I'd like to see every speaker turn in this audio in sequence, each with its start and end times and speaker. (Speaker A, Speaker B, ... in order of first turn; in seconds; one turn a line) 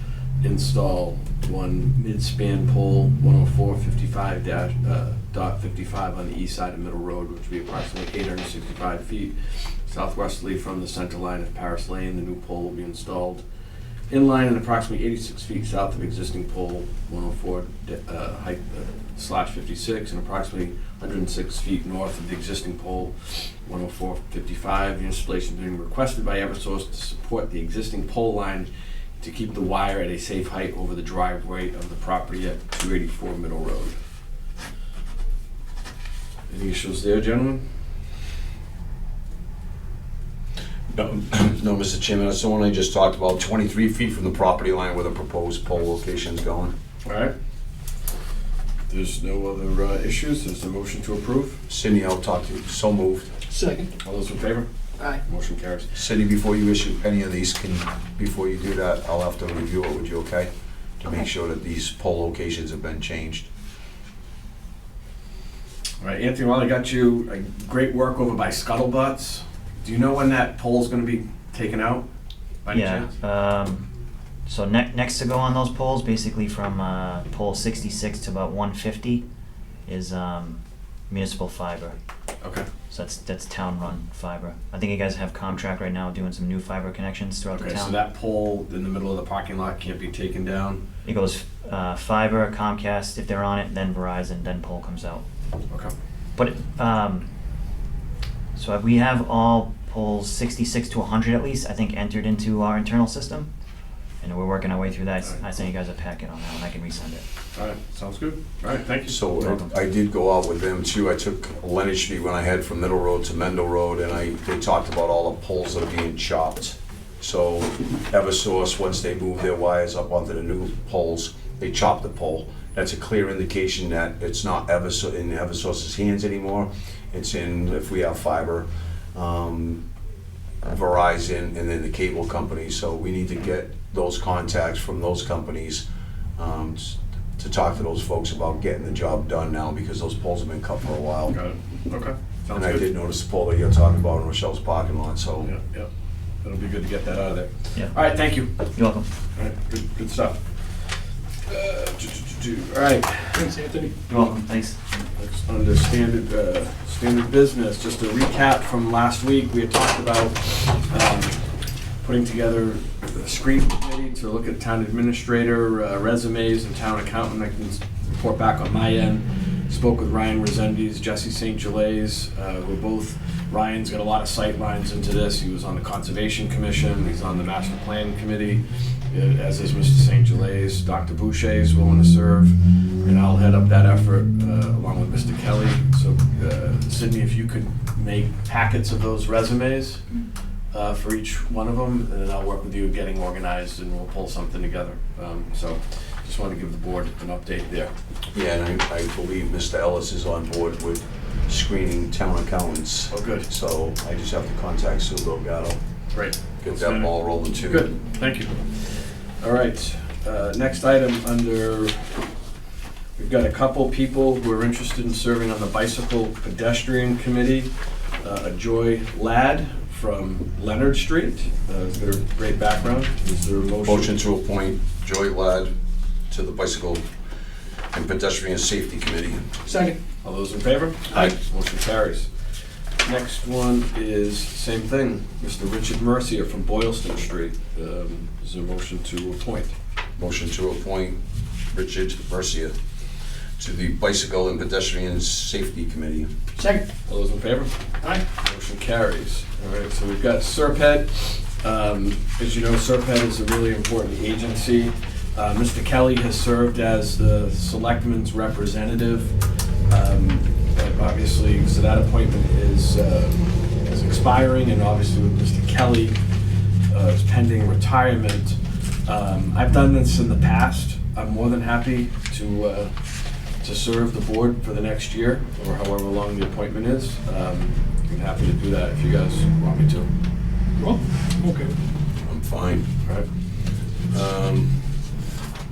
Speaker A: 0.4-13.4
Speaker A: 14.1-34.0
Speaker A: 36.5-37.6
Speaker B: 40.9-46.7
Speaker A: 47.0-47.3
Speaker A: 48.9-51.6
Speaker B: 51.7-53.3
Speaker C: 53.5-53.9
Speaker A: 54.0-55.9
Speaker B: 55.9-60.5
Speaker B: 61.0-63.5
Speaker A: 66.0-72.1
Speaker A: 72.7-73.1
Speaker D: 72.7-73.9
Speaker D: 74.5-79.2
Speaker D: 79.9-82.0
Speaker A: 82.4-82.7
Speaker D: 82.9-88.0
Speaker A: 87.5-90.8
Speaker D: 91.0-95.2
Speaker D: 96.4-97.3
Speaker D: 98.5-103.5
Speaker D: 104.2-107.2
Speaker A: 107.5-109.3
Speaker B: 109.1-129.8
Speaker D: 109.4-109.7
Speaker B: 130.7-135.8
Speaker B: 136.4-141.4
Speaker A: 141.3-142.8
Speaker B: 142.5-145.5
Speaker A: 145.4-145.9
Speaker A: 146.4-148.6
Speaker D: 148.7-149.1
Speaker A: 149.3-150.8
Speaker A: 151.5-153.6
Speaker C: 153.3-154.0
Speaker D: 154.1-154.8
Speaker A: 155.2-190.0
Speaker A: 190.7-197.9
Speaker B: 198.3-205.8
Speaker A: 203.1-203.5
Speaker A: 206.1-212.2
Speaker B: 206.6-207.9
Speaker A: 213.2-217.7
Speaker A: 218.2-224.1
Speaker B: 223.8-225.7
Speaker B: 226.3-227.0
Speaker B: 227.9-229.6
Speaker C: 229.7-230.0
Speaker A: 230.2-232.3
Speaker A: 233.0-239.7
Speaker B: 240.2-241.2
Speaker B: 241.7-242.7
Speaker B: 243.6-246.3
Speaker C: 246.6-246.9
Speaker A: 247.0-259.4
Speaker A: 259.9-266.2
Speaker A: 266.9-273.1
Speaker A: 273.6-280.1
Speaker C: 280.8-281.8
Speaker B: 282.2-282.9
Speaker B: 284.1-284.9